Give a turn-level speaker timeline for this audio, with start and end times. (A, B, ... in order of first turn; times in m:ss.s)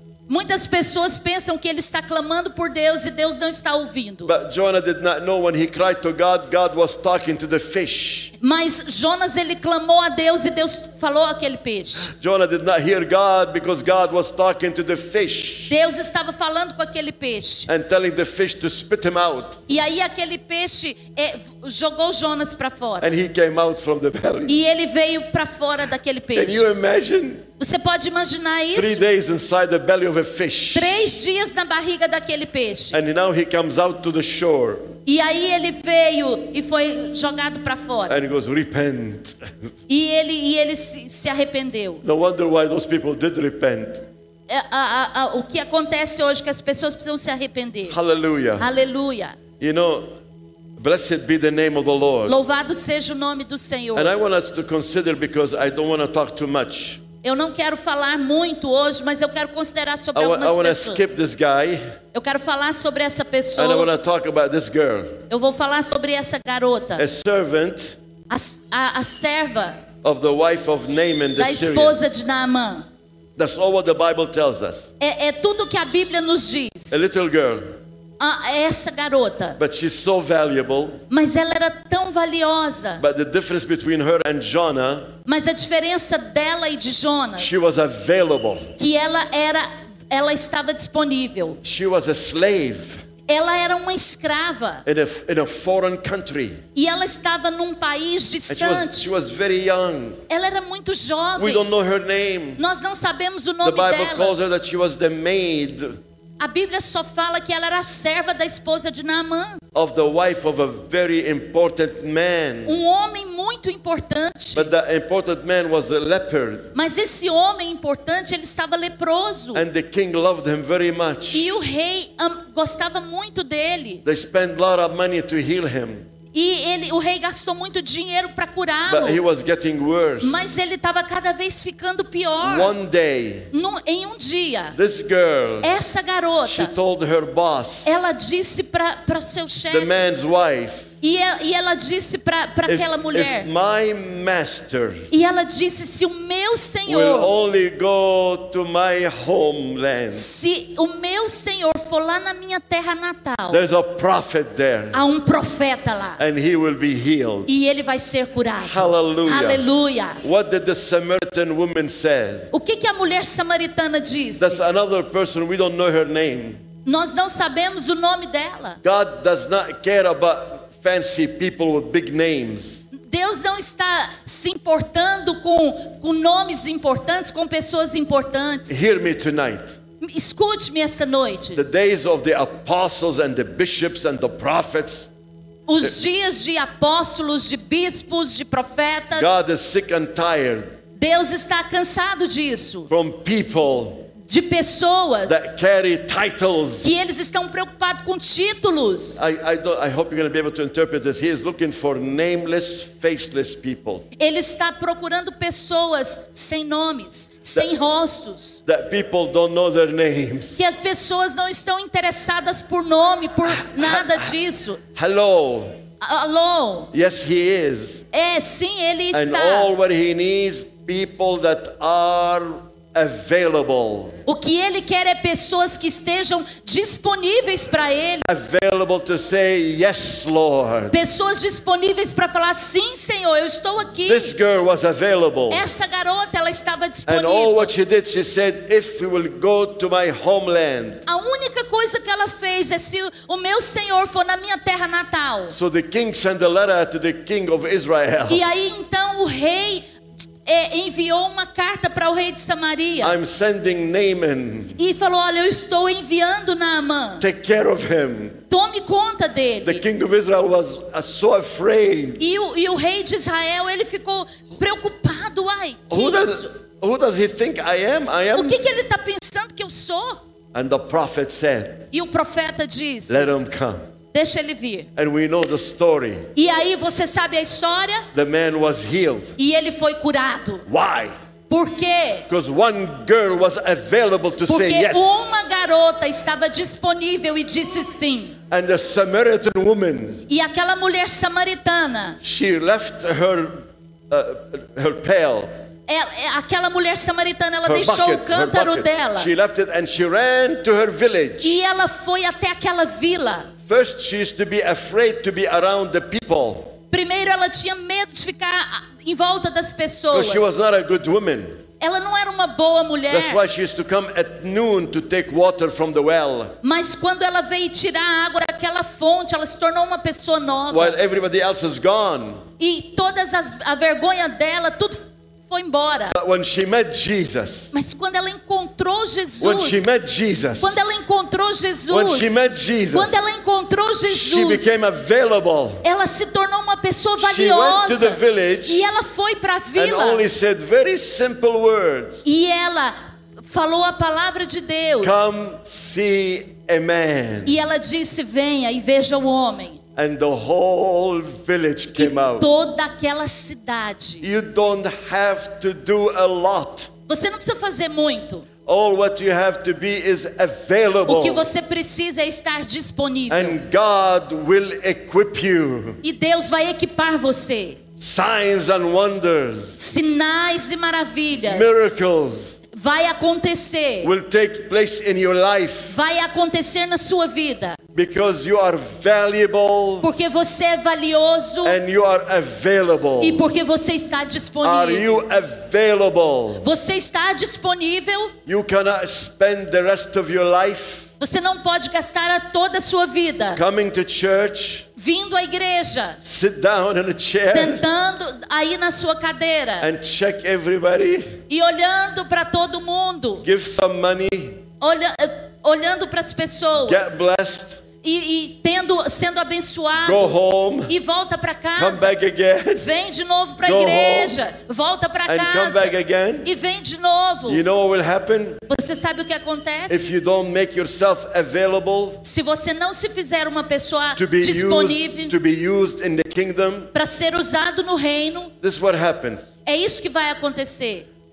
0:00.3-0:04.3 A
0:04.3-0:08.3 B
0:08.4-0:12.1 A
0:12.1-0:15.7 B
0:15.7-0:17.7 A
0:17.7-0:19.7 B
0:19.7-0:23.1 A
0:23.0-0:24.6 B
0:24.5-0:26.7 A
0:26.3-0:27.5 B
0:27.6-0:29.0 A
0:28.7-0:30.9 B
0:30.7-0:33.0 A
0:32.9-0:35.0 B
0:35.1-0:38.2 A
0:38.1-0:39.7 B
0:39.9-0:42.0 A
0:42.0-0:44.1 B
0:44.5-0:48.0 A
0:47.9-0:48.7 B
0:48.6-0:49.4 A
0:49.6-0:50.1 B
0:50.8-0:52.4 B
0:52.3-0:54.2 A
0:54.0-0:57.0 B
0:57.2-1:01.0 A
1:00.1-1:02.0 B
1:02.1-1:03.9 A
1:03.6-1:05.2 B
1:05.3-1:07.0 A
1:07.0-1:08.0 B
1:08.3-1:09.8 A
1:10.0-1:12.0 B
1:11.4-1:12.9 A
1:13.4-1:14.9 B
1:15.0-1:17.0 A
1:16.9-1:17.8 B
1:18.2-1:19.6 A
1:19.6-1:21.0 B
1:21.1-1:23.0 A
1:23.0-1:25.2 B
1:25.3-1:27.6 A
1:27.4-1:28.8 B
1:28.8-1:31.6 A
1:31.6-1:33.0 B
1:33.3-1:34.8 A
1:34.8-1:36.6 B
1:36.8-1:39.1 A
1:38.5-1:40.2 B
1:40.3-1:41.7 A
1:41.4-1:42.6 B
1:42.6-1:44.4 A
1:43.6-1:46.0 B
1:46.4-1:49.6 A
1:49.7-1:52.8 B
1:52.7-1:54.7 A
1:54.6-1:56.7 B
1:56.8-1:59.6 A
1:59.5-2:01.5 B
2:01.3-2:04.0 A
2:04.0-2:06.0 B
2:06.3-2:09.2 A
2:08.9-2:10.4 B
2:10.2-2:12.7 A
2:12.4-2:13.5 B
2:13.5-2:14.8 A
2:14.8-2:15.7 B
2:15.6-2:16.7 A
2:16.4-2:18.0 B
2:17.9-2:19.9 A
2:19.7-2:20.9 B
2:21.0-2:23.5 A
2:22.7-2:25.1 B
2:25.1-2:27.3 A
2:26.9-2:30.3 B
2:30.1-2:33.6 A
2:33.5-2:35.0 B
2:34.9-2:36.2 A
2:36.2-2:37.5 B
2:37.5-2:40.2 A
2:38.6-2:39.6 B
2:40.2-2:42.5 B
2:42.5-2:44.6 A
2:44.4-2:46.6 B
2:46.8-2:48.8 A
2:48.8-2:52.8 B
2:52.9-2:58.8 A
2:58.7-2:59.8 B
3:00.0-3:01.6 A
3:01.6-3:05.1 B
3:05.7-3:09.4 A
3:09.1-3:10.8 B
3:11.0-3:12.9 A
3:12.9-3:14.1 B
3:14.2-3:15.4 A
3:15.3-3:16.9 B
3:16.8-3:19.2 A
3:19.2-3:24.1 B
3:24.2-3:28.6 A
3:28.7-3:30.6 B
3:30.6-3:34.8 A
3:33.5-3:34.3 B
3:35.0-3:35.8 B
3:36.0-3:36.9 A
3:36.9-3:38.1 B
3:38.1-3:39.7 A
3:39.1-3:44.2 B
3:44.3-3:48.3 A
3:48.2-3:51.0 B
3:50.9-3:54.3 A
3:54.0-3:55.6 B
3:55.5-3:57.7 A
3:57.1-4:01.0 B
4:01.1-4:05.6 A
4:05.5-4:08.4 B
4:08.3-4:09.8 A
4:10.4-4:13.2 A
4:13.0-4:14.8 B
4:14.8-4:17.2 A
4:17.2-4:18.4 B
4:18.5-4:19.8 A
4:19.6-4:22.2 B
4:22.2-4:26.5 A
4:25.9-4:28.6 B
4:28.3-4:30.2 A
4:30.5-4:31.9 B
4:31.9-4:33.3 A
4:33.1-4:33.9 B
4:34.1-4:34.9 A
4:35.0-4:36.3 B
4:36.4-4:38.1 A
4:38.1-4:39.4 B
4:39.4-4:40.6 A
4:40.7-4:41.1 B
4:41.5-4:42.3 A
4:42.3-4:45.2 B
4:44.5-4:48.4 A
4:48.5-4:50.3 B
4:50.3-4:52.2 A
4:52.2-4:55.5 B
4:55.9-4:59.3 A
4:57.7-5:01.6 B
5:01.4-5:03.5 A
5:03.7-5:06.8 B
5:06.9-5:10.4 A
5:10.1-5:11.6 B
5:11.8-5:13.4 A
5:13.1-5:16.6 B
5:16.6-5:21.0 A
5:20.7-5:22.5 B
5:22.6-5:26.2 A
5:26.1-5:27.7 B
5:27.7-5:29.8 A
5:29.4-5:31.0 B
5:30.6-5:32.3 A
5:31.9-5:33.2 B
5:32.9-5:34.7 A
5:34.1-5:35.8 B
5:35.8-5:40.3 A
5:37.2-5:38.8 B
5:39.7-5:42.2 B
5:42.2-5:45.3 A
5:45.0-5:47.6 B
5:47.5-5:49.8 A
5:50.0-5:52.5 B
5:52.0-5:54.3 A
5:54.2-5:56.9 B
5:57.1-5:58.5 A
5:58.7-6:01.5 B
6:01.0-6:03.6 A
6:03.3-6:06.0 B
6:06.0-6:07.8 A
6:08.0-6:09.8 B
6:09.8-6:11.8 A
6:11.4-6:12.6 B
6:12.7-6:14.1 A
6:14.0-6:16.0 B
6:15.9-6:17.8 A
6:18.0-6:20.1 B
6:20.0-6:21.8 A
6:21.6-6:23.4 B
6:23.2-6:25.1 A
6:24.6-6:26.7 B
6:26.6-6:28.3 A
6:28.5-6:31.1 B
6:31.2-6:33.6 A
6:33.5-6:34.9 B
6:35.0-6:36.2 A
6:36.2-6:37.8 B
6:37.3-6:39.9 A
6:39.8-6:41.4 B
6:41.5-6:43.4 A
6:43.4-6:44.6 B
6:44.8-6:47.1 A
6:46.8-6:47.8 B
6:48.0-6:52.2 A
6:50.0-6:51.0 B
6:51.8-6:52.9 B
6:52.8-6:57.6 A
6:53.6-6:54.4 B
6:55.3-6:56.5 B
6:57.5-6:58.6 B
6:58.7-7:00.0 A
6:59.9-7:02.2 B
7:02.2-7:05.4 A
7:04.2-7:06.9 B
7:06.9-7:08.5 A
7:08.6-7:09.5 B
7:09.6-7:11.1 A